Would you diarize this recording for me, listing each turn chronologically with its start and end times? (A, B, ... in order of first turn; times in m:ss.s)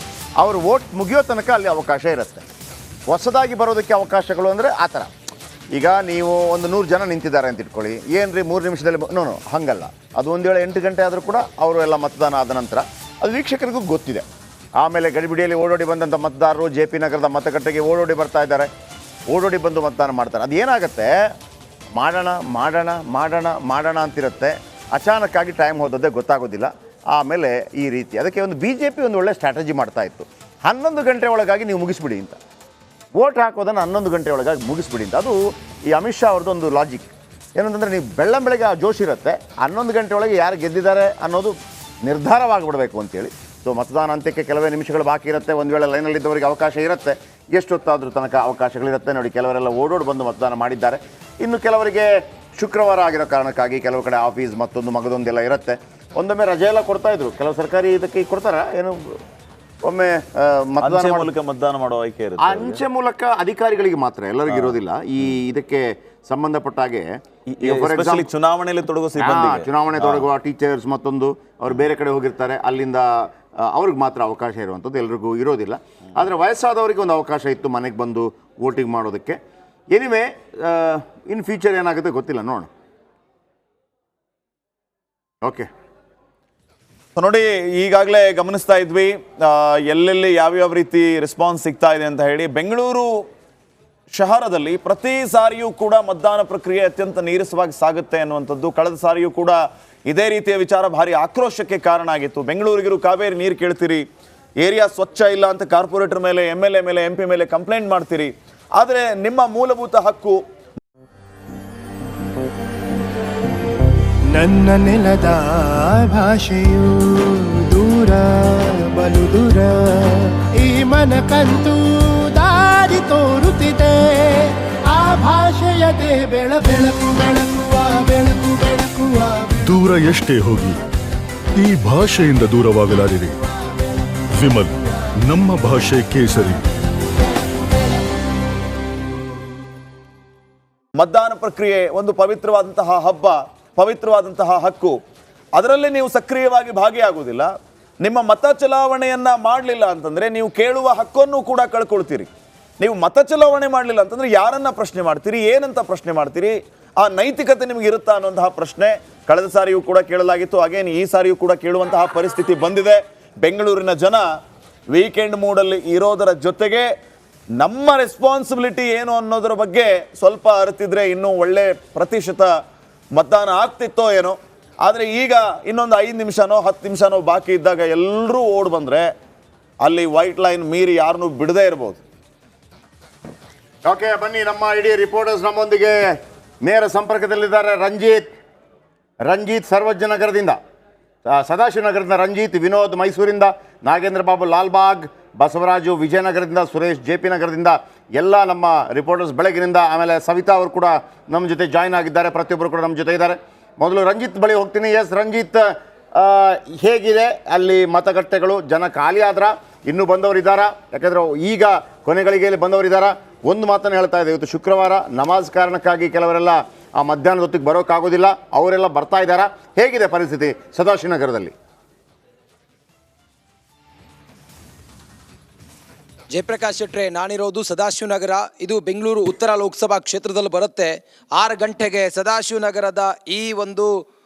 0:00.4-0:02.4 A
0:03.1-0:05.1 A
0:05.7-0:14.2 A
0:14.8-0:18.7 A
0:19.3-0:21.1 A
0:22.0-0:32.4 A
0:33.1-0:59.2 A
0:59.8-1:01.3 A
1:00.8-1:02.8 B
1:02.4-1:08.3 A
1:04.5-1:04.7 B
1:07.4-1:10.3 B
1:09.2-1:19.4 A
1:19.9-1:22.7 A
1:27.2-1:33.3 B
1:34.1-1:44.1 B
1:44.6-1:50.4 B
1:54.4-1:59.7 C
2:00.6-2:01.8 C
2:02.4-2:03.9 C
2:05.0-2:09.6 C
2:09.6-2:10.8 D
2:11.6-2:13.4 D
2:14.3-2:16.6 D
2:21.0-2:25.0 B
2:25.5-2:44.3 B
2:44.9-2:46.9 B
2:47.6-2:52.5 B
2:53.1-2:59.1 B
2:59.8-3:02.0 B
3:03.8-3:06.0 A
3:06.6-3:08.3 A
3:09.2-3:10.6 A
3:11.3-3:25.6 A
3:26.2-3:41.5 A
3:46.3-3:53.9 E